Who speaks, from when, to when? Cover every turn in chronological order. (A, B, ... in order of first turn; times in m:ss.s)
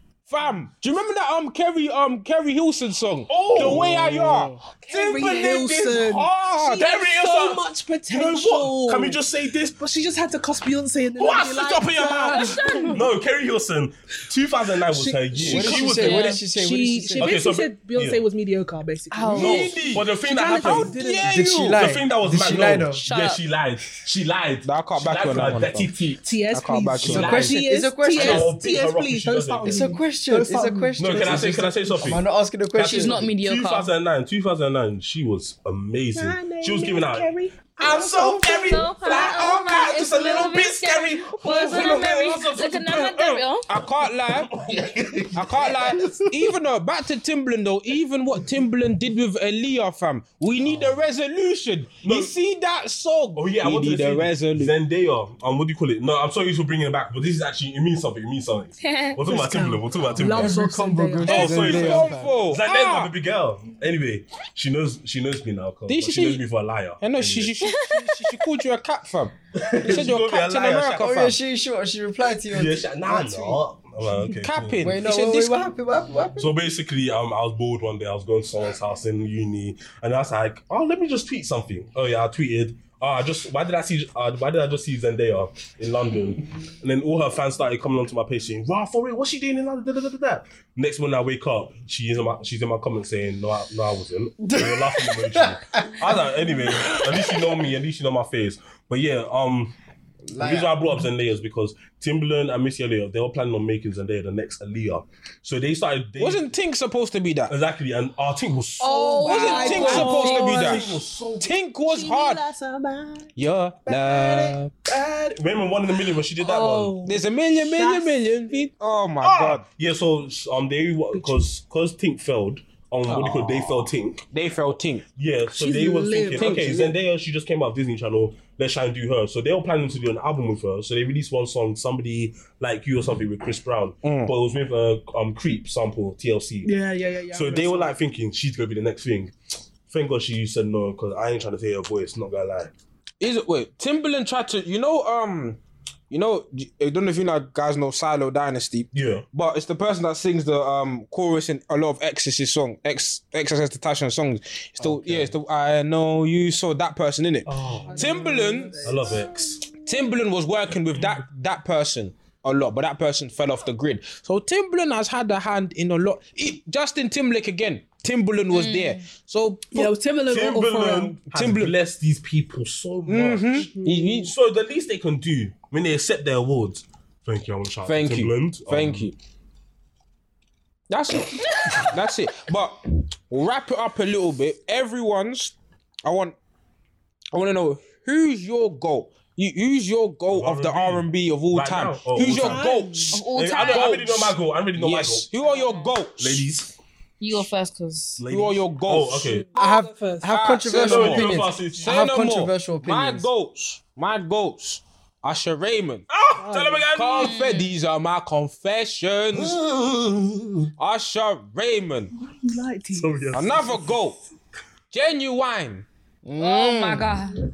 0:00.3-0:06.8 A
0:03.3-0:04.6 B
0:04.8-0:13.0 C
0:06.6-0:09.8 B
0:11.2-0:16.4 B
0:12.3-0:13.0 D
0:14.9-0:21.5 C
0:15.4-0:17.5 E
0:15.6-0:16.4 D
0:17.2-0:18.2 B
0:19.1-0:19.8 D
0:19.3-0:21.0 B
0:19.3-0:21.9 A
0:21.2-0:23.0 E
0:21.7-0:26.3 B
0:23.0-0:23.4 D
0:24.6-0:25.9 A
0:26.2-0:31.8 C
0:26.5-0:27.6 A
0:27.0-0:27.6 B
0:27.1-0:28.6 E
0:28.1-0:29.9 B
0:29.6-0:33.3 E
0:31.0-0:32.2 B
0:32.8-0:43.4 B
0:32.8-0:33.9 D
0:36.1-0:38.2 C
0:38.1-0:38.7 E
0:38.4-0:43.7 D
0:41.5-0:42.0 C
0:43.7-0:44.5 A
0:44.3-0:46.2 B
0:45.3-0:54.7 A
0:50.6-0:51.0 B
0:52.0-0:52.3 B
0:53.4-1:00.6 B
0:58.8-0:59.2 D
0:59.2-1:01.9 C
1:00.2-1:02.4 E
1:01.2-1:07.7 B
1:01.2-1:03.1 A
1:05.9-1:06.4 A
1:07.0-1:11.4 A
1:07.6-1:08.4 D
1:09.7-1:11.0 B
1:09.7-1:10.0 E
1:10.9-1:13.6 E
1:12.5-1:14.8 B
1:14.4-1:15.7 A
1:14.8-1:16.5 E
1:16.4-1:39.8 B
1:34.4-1:36.1 E
1:40.3-1:41.1 E
1:40.4-1:46.5 B
1:46.2-1:47.5 A
1:47.5-1:51.6 B
1:48.8-1:50.9 C
1:49.2-1:50.8 D
1:49.2-1:52.4 A
1:51.8-1:53.3 C
1:53.4-1:54.7 A
1:53.9-1:54.6 C
1:54.3-1:57.0 B
1:56.4-1:58.2 C
1:57.0-1:59.6 A
1:59.2-2:04.2 B
2:01.1-2:01.4 C
2:03.1-2:05.0 A
2:05.2-2:16.7 B
2:05.5-2:07.0 C
2:06.4-2:06.9 A
2:14.0-2:14.3 A
2:16.6-2:18.0 C
2:17.3-2:19.3 B
2:19.9-2:22.7 B
2:23.2-2:25.6 A
2:26.1-2:39.0 A
2:28.9-2:29.2 B
2:34.8-2:35.3 E
2:35.0-2:35.3 B
2:37.5-2:38.2 B
2:37.8-2:39.3 C
2:38.8-2:39.6 B
2:39.8-2:49.9 A
2:48.5-2:49.0 D
2:49.7-2:51.2 C
2:50.3-2:53.7 B
2:51.3-2:51.7 A
2:53.1-2:54.3 A
2:53.6-2:54.3 C
2:54.2-2:59.1 B
2:57.9-2:59.1 A
3:00.9-3:05.5 A
3:01.4-3:01.8 D
3:06.1-3:06.4 A
3:07.3-3:16.4 A
3:10.3-3:12.7 B
3:12.1-3:13.2 C
3:13.1-3:14.0 D
3:13.2-3:15.3 B
3:15.4-3:15.9 C
3:16.2-3:16.7 B
3:17.2-3:18.2 D
3:18.2-3:19.5 B
3:18.3-3:19.4 A
3:19.3-3:20.6 C
3:19.6-3:23.3 E
3:20.3-3:26.1 A
3:20.7-3:22.0 B
3:26.1-3:27.3 B
3:26.4-3:26.8 C
3:26.9-3:29.6 A
3:27.2-3:27.8 D
3:29.3-3:30.7 B
3:30.8-3:32.1 A
3:32.2-3:33.1 C
3:32.9-3:34.0 B
3:33.3-3:34.2 A
3:34.9-3:37.1 A
3:36.4-3:37.4 D